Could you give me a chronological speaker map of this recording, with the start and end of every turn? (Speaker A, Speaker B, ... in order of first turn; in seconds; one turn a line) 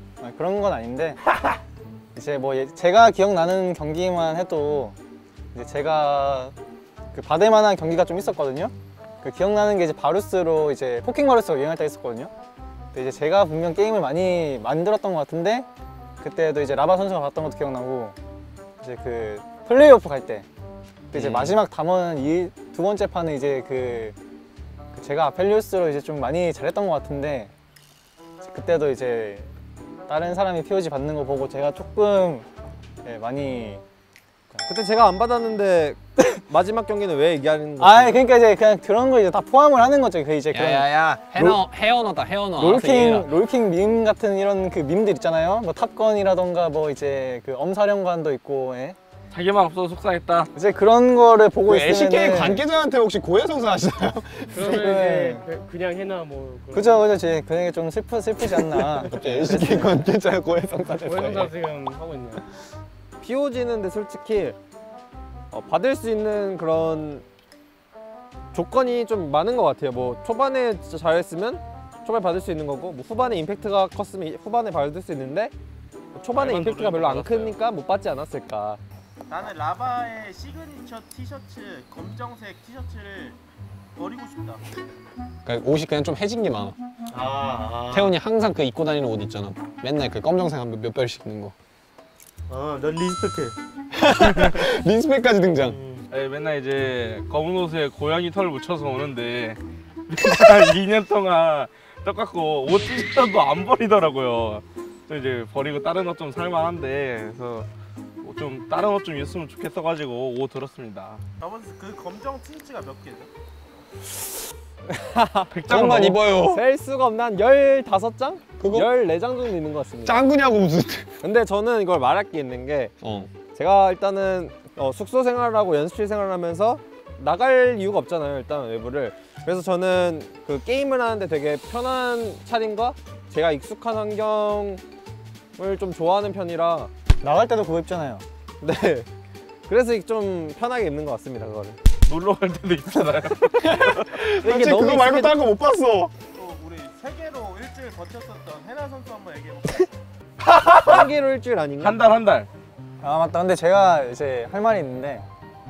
Speaker A: 0.2-1.3
Speaker A: 2.1-5.0
Speaker A: 5.5-6.5
Speaker A: 7.1-12.3
Speaker A: 12.9-15.7
Speaker A: 16.2-18.1
Speaker A: 18.8-20.4
Speaker A: 21.1-24.1
Speaker B: 21.1-21.6
Speaker A: 24.9-27.5
Speaker A: 28.4-29.5
Speaker A: 30.1-32.5
Speaker A: 33.0-33.8
Speaker C: 34.6-38.2
Speaker A: 37.8-41.6
Speaker B: 40.5-43.3
Speaker A: 42.6-49.0
Speaker D: 49.3-50.5
Speaker A: 50.5-52.6
Speaker B: 51.6-54.7
Speaker E: 54.5-57.1
Speaker A: 54.6-55.4
Speaker A: 56.7-60.0
Speaker B: 58.5-61.5
Speaker E: 61.0-62.4
Speaker C: 63.2-64.5
Speaker C: 65.5-67.2
Speaker C: 68.5-75.5
Speaker C: 76.1-78.8
Speaker D: 76.3-77.5
Speaker F: 79.3-83.4
Speaker F: 84.0-84.6
Speaker B: 85.4-86.8
Speaker G: 87.1-88.1
Speaker B: 87.9-91.5
Speaker G: 92.5-93.5
Speaker B: 93.9-95.8
Speaker G: 95.6-96.0
Speaker D: 96.1-99.6
Speaker D: 100.1-107.7
Speaker D: 108.2-111.2
Speaker F: 111.4-113.3
Speaker C: 114.9-120.2
Speaker D: 115.5-116.0
Speaker B: 115.7-116.6
Speaker B: 118.6-118.9
Speaker B: 120.0-121.1
Speaker C: 121.2-122.9
Speaker B: 123.0-123.3
Speaker C: 123.5-134.8
Speaker C: 135.6-136.9
Speaker A: 137.2-138.2
Speaker C: 138.6-139.1
Speaker C: 139.7-141.8
Speaker D: 142.1-144.2
Speaker B: 143.6-146.1
Speaker C: 144.4-145.3
Speaker F: 146.3-149.9
Speaker C: 150.7-152.0
Speaker D: 151.8-152.5
Speaker A: 153.0-155.2